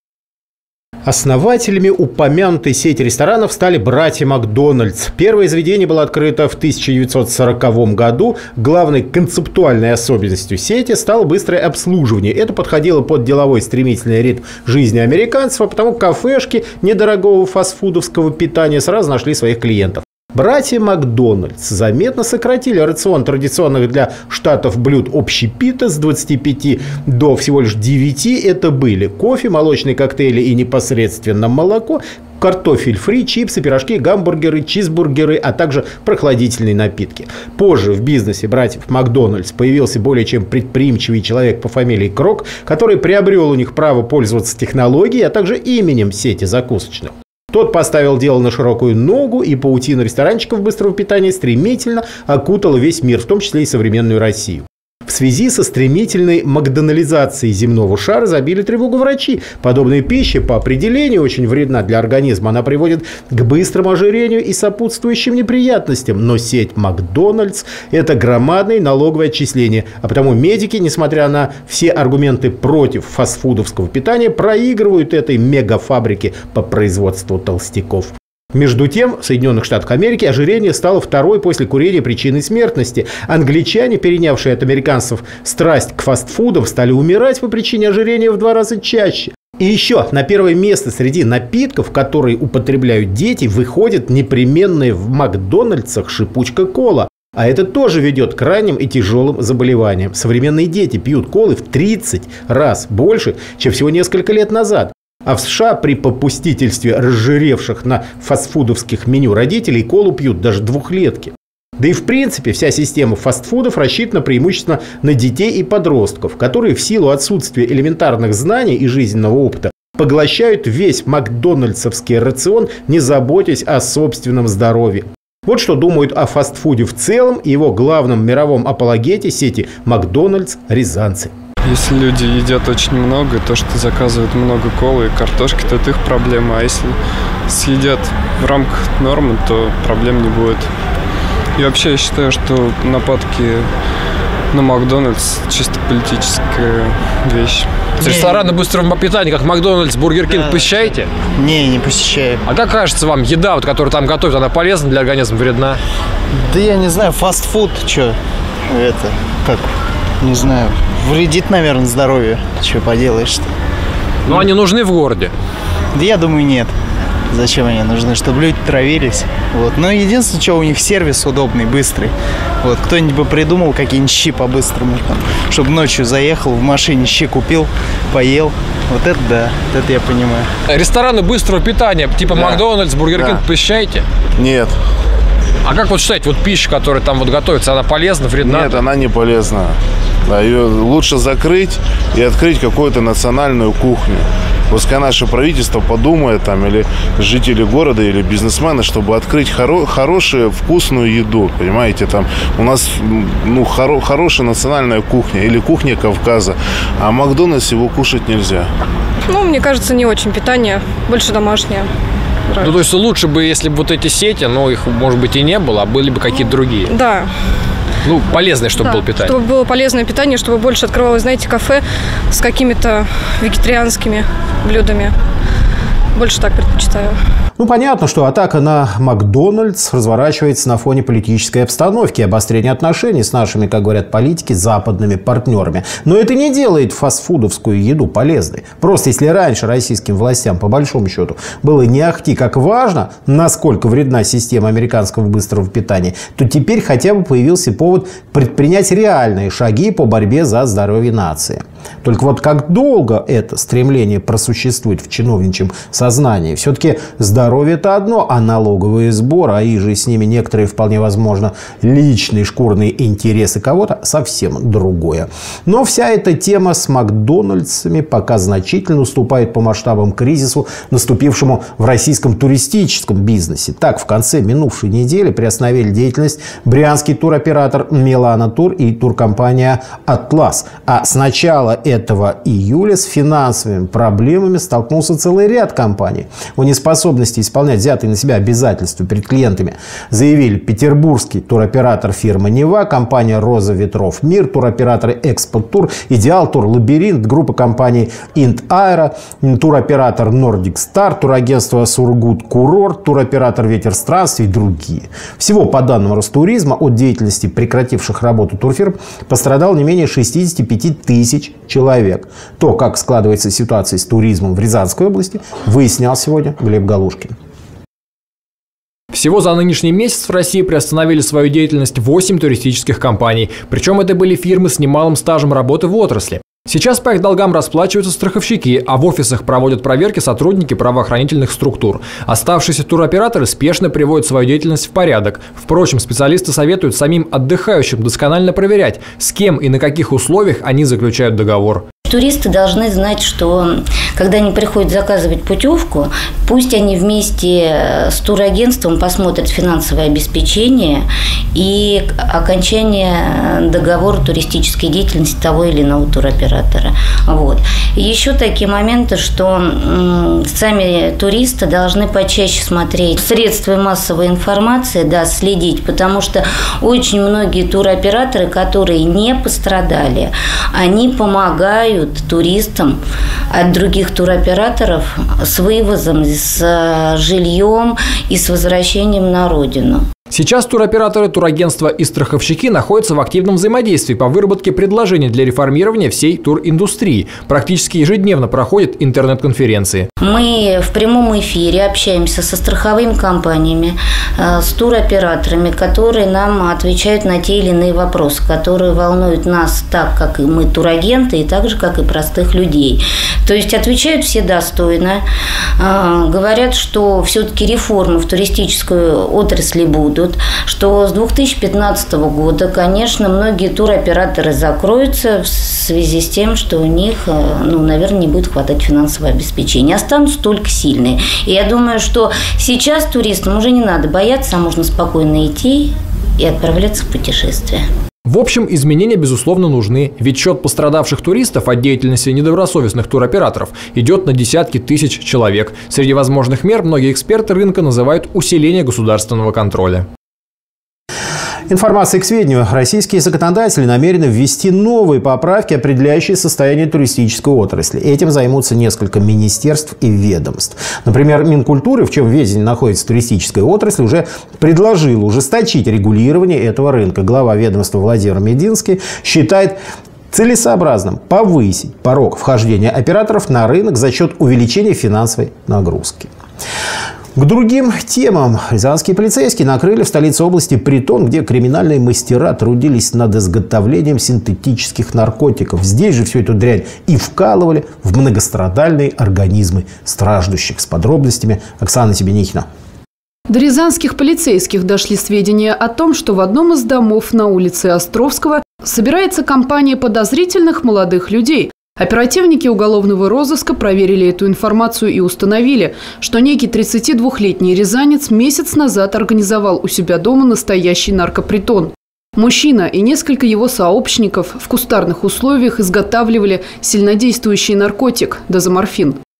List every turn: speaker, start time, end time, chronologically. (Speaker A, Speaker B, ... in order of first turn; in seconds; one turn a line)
Speaker A: 1.0-131.3
Speaker B: 131.7-136.9
Speaker B: 137.5-140.7
Speaker B: 141.6-143.7
Speaker B: 144.5-147.8
Speaker C: 148.0-151.2
Speaker D: 148.0-148.4
Speaker D: 151.4-152.4
Speaker C: 152.4-155.8
Speaker D: 156.5-158.1
Speaker D: 158.7-159.6
Speaker D: 160.2-163.4
Speaker C: 164.2-165.3
Speaker D: 165.9-166.7
Speaker D: 167.3-172.1
Speaker D: 172.6-180.4
Speaker C: 180.7-184.0
Speaker E: 184.4-184.8
Speaker C: 185.6-188.5
Speaker E: 188.4-189.7
Speaker E: 190.3-208.7
Speaker F: 209.3-211.9
Speaker F: 212.5-212.8
Speaker C: 212.6-216.9
Speaker F: 216.8-217.3
Speaker C: 218.0-219.3
Speaker F: 218.7-225.1
Speaker F: 226.2-227.1
Speaker A: 227.6-317.3
Speaker G: 319.1-341.8
Speaker H: 342.1-373.0
Speaker H: 373.5-380.0
Speaker G: 380.3-390.0
Speaker H: 390.2-405.2
Speaker H: 405.8-427.8
Speaker G: 428.3-440.1
Speaker A: 441.7-459.8
Speaker A: 460.3-466.3
Speaker A: 467.4-482.6
Speaker I: 483.5-509.2